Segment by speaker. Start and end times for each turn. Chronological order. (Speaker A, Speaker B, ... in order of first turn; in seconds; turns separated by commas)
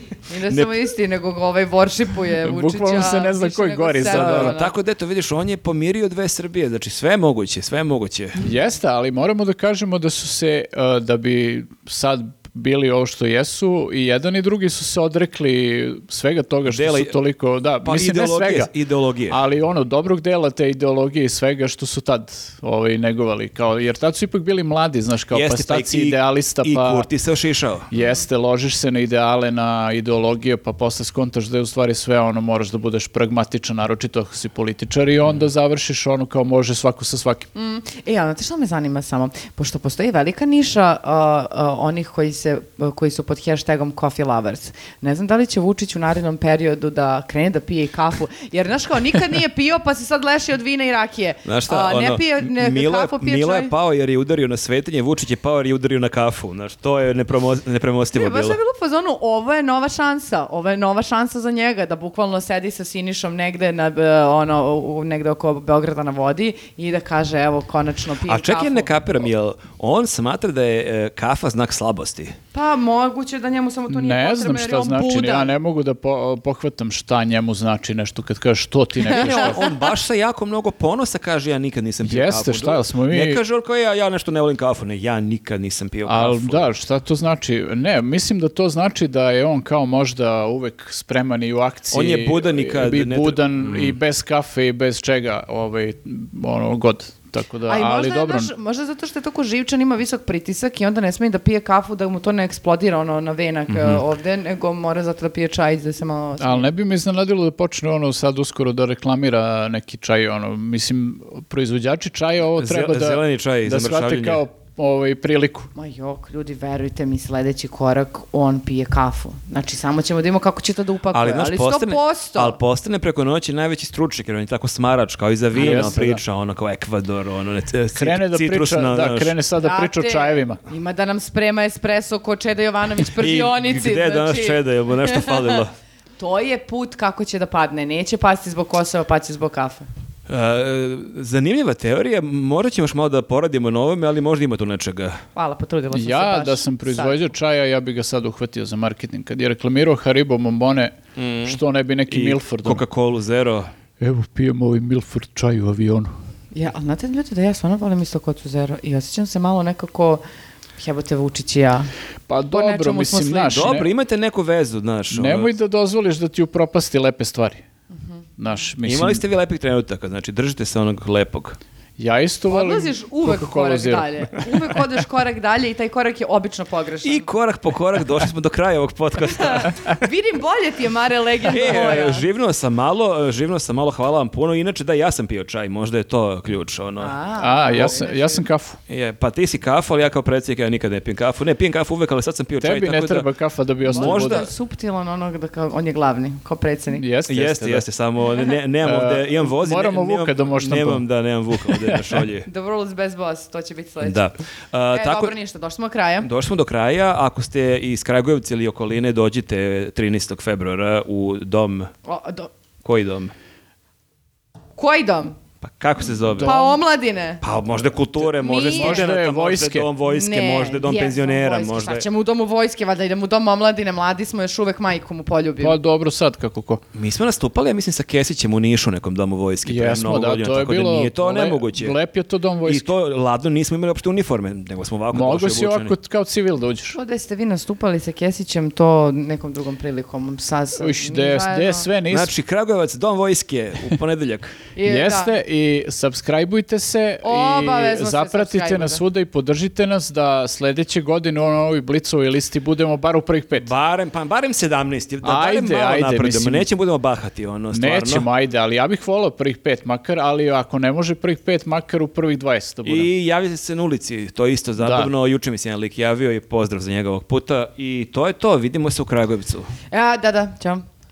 Speaker A: 0.3-4.7, Speaker B: 0.5-0.8, Speaker C: 2.4-4.5, Speaker B: 4.1-8.4, Speaker C: 8.4-18.7, Speaker B: 16.7-17.1, Speaker B: 17.8-19.4, Speaker C: 19.3-27.1, Speaker B: 25.3-27.9, Speaker C: 27.9-37.5, Speaker A: 27.9-28.2, Speaker A: 37.5-53.7, Speaker B: 51.4-58.6, Speaker A: 58.1-68.9, Speaker B: 68.3-72.4, Speaker A: 72.5-75.5, Speaker C: 73.9-79.6, Speaker A: 79.0-79.9, Speaker B: 79.1-86.7, Speaker C: 82.0-83.4, Speaker C: 86.0-98.5, Speaker B: 91.9-94.0, Speaker A: 97.7-106.7, Speaker B: 103.7-104.0, Speaker C: 106.4-115.7, Speaker B: 112.5-114.4, Speaker A: 115.7-122.6, Speaker B: 121.1-129.3, Speaker A: 125.5-125.9, Speaker C: 125.5-126.2, Speaker C: 127.9-130.6, Speaker A: 129.6-135.6, Speaker B: 133.2-135.7, Speaker A: 136.2-139.9, Speaker B: 140.3-145.2, Speaker A: 145.3-147.2, Speaker C: 145.9-152.8, Speaker B: 151.2-153.7, Speaker C: 154.0-156.1, Speaker A: 156.5-160.2, Speaker A: 160.8-161.9, Speaker C: 162.3-163.9, Speaker A: 162.5-163.8, Speaker B: 163.5-165.5, Speaker C: 165.1-167.6, Speaker C: 168.4-169.2, Speaker B: 168.8-171.6, Speaker C: 172.0-174.8, Speaker A: 172.5-177.3, Speaker B: 177.0-179.9, Speaker A: 179.4-182.3, Speaker B: 181.5-187.2, Speaker A: 187.0-188.4, Speaker C: 187.4-188.8, Speaker B: 188.9-193.3, Speaker C: 192.6-194.4, Speaker A: 193.9-197.0, Speaker B: 193.9-194.5, Speaker C: 196.9-197.8, Speaker B: 197.3-202.5, Speaker C: 198.8-201.0, Speaker C: 201.7-202.2, Speaker A: 202.4-204.2, Speaker B: 204.0-205.3, Speaker A: 204.9-206.3, Speaker B: 206.2-211.9, Speaker A: 212.1-212.5, Speaker B: 212.8-213.3, Speaker A: 214.8-215.3, Speaker B: 215.6-216.6, Speaker C: 216.4-216.7, Speaker A: 216.4-217.4, Speaker B: 217.4-222.0, Speaker A: 218.3-219.1, Speaker C: 218.7-219.9, Speaker A: 220.0-225.8, Speaker C: 225.6-226.8, Speaker B: 226.9-231.9, Speaker C: 229.7-232.9, Speaker B: 232.7-235.9, Speaker C: 235.1-237.0, Speaker A: 236.9-241.9, Speaker C: 240.8-242.3, Speaker B: 242.1-244.6, Speaker A: 244.8-245.3, Speaker C: 244.8-253.7, Speaker A: 247.2-249.0, Speaker B: 253.6-258.2, Speaker C: 255.2-256.6, Speaker C: 257.7-263.1, Speaker B: 262.8-269.7, Speaker C: 264.8-265.1, Speaker A: 269.9-270.8